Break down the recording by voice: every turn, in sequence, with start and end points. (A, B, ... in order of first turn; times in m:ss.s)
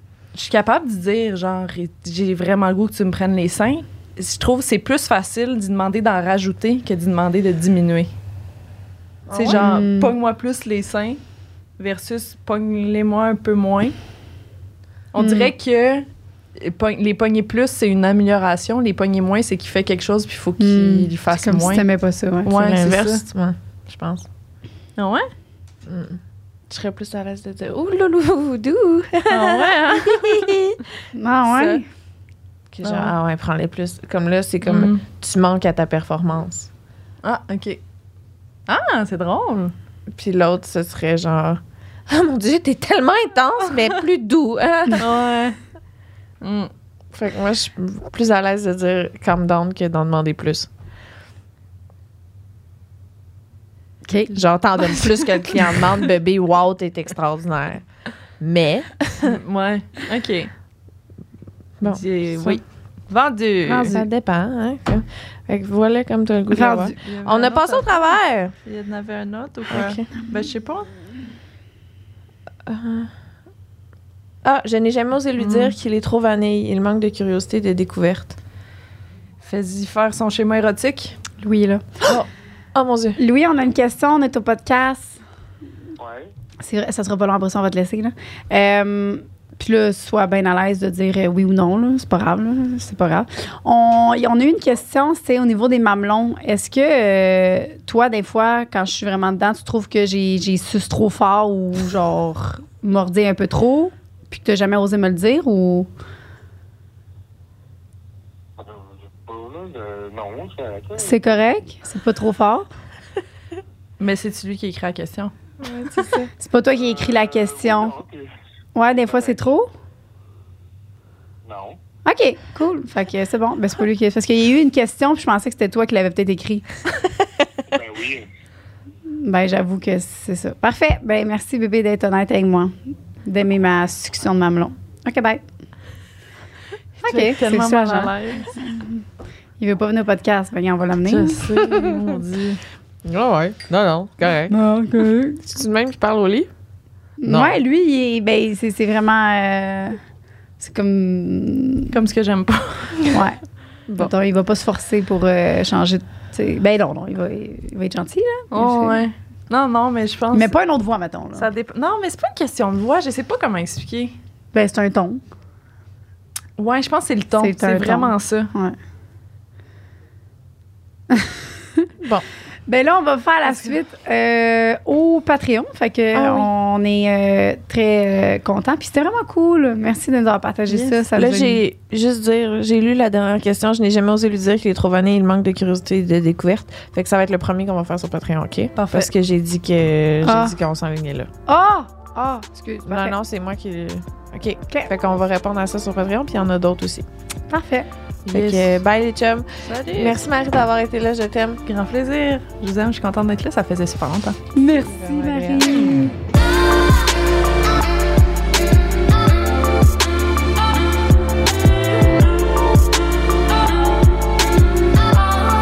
0:00.3-0:08.1 A
0:09.3-0:09.6 B
0:09.3-0:11.2 A
0:09.4-0:10.1 C
0:11.8-0:14.0 A
0:15.1-0:16.0 A
0:15.2-0:15.5 C
0:16.6-0:21.8 A
0:20.6-0:22.7 C
0:22.4-0:23.2 A
0:22.6-0:24.2 B
0:25.0-0:25.3 A
0:25.8-0:30.8 B
0:29.3-0:30.6 A
0:31.1-0:31.8 C
0:31.4-0:31.8 A
0:32.7-0:36.7 B
0:32.8-0:33.1 A
0:34.6-0:35.0 A
0:37.2-0:37.8 A
0:38.7-0:39.7 A
0:40.1-0:45.1 B
0:45.0-0:45.6 A
0:46.4-0:46.7 A
0:47.1-0:50.7 B
0:54.0-0:55.0 C
0:54.3-0:57.8 B
0:58.4-0:59.4 B
0:59.2-1:00.5 A
1:01.8-1:02.6 B
1:01.8-1:04.0 A
1:03.7-1:04.0 C
1:03.8-1:08.5 B
1:06.5-1:07.0 C
1:07.0-1:08.0 A
1:08.6-1:10.9 A
1:09.7-1:10.0 B
1:12.6-1:13.1 B
1:14.4-1:18.4 B
1:15.4-1:15.7 A
1:19.4-1:21.2 A
1:21.4-1:22.1 C
1:22.7-1:23.2 B
1:23.2-1:25.2 C
1:26.0-1:26.3 D
1:26.6-1:45.9 C
1:48.6-1:51.4 D
1:51.0-1:52.7 C
1:54.0-1:55.3 A
1:55.6-1:56.3 B
1:56.3-1:58.0 C
1:56.8-1:58.3 D
1:58.7-1:59.7 C
2:01.4-2:01.8 D
2:02.0-2:06.6 C
2:07.7-2:08.3 D
2:09.1-2:15.4 C
2:17.0-2:19.0 C
2:17.0-2:18.5 A
2:19.6-2:21.4 C
2:21.1-2:22.6 A
2:21.6-2:22.2 B
2:23.0-2:24.5 B
2:24.5-2:25.4 C
2:25.4-2:26.5 B
2:27.2-2:30.0 C
2:27.2-2:27.6 B
2:30.6-2:31.9 C
2:31.9-2:33.1 A
2:33.1-2:33.4 C
2:34.0-2:39.0 C
2:38.5-2:40.5 A
2:40.3-2:41.5 C
2:41.3-2:44.2 A
2:44.5-2:45.2 C
2:46.6-2:48.5 A
2:47.4-2:48.8 C
2:51.1-2:51.8 C
2:52.0-2:52.2 B
2:52.7-3:01.6 C
2:56.1-2:56.5 B
3:01.1-3:11.3 B
3:08.8-3:09.1 A
3:10.2-3:10.6 C
3:11.5-3:13.2 C
3:12.8-3:17.0 B
3:17.5-3:17.9 C
3:18.3-3:18.8 A
3:18.3-3:21.6 B
3:19.6-3:20.2 A
3:21.7-3:24.4 A
3:24.5-3:26.1 C
3:24.8-3:26.0 B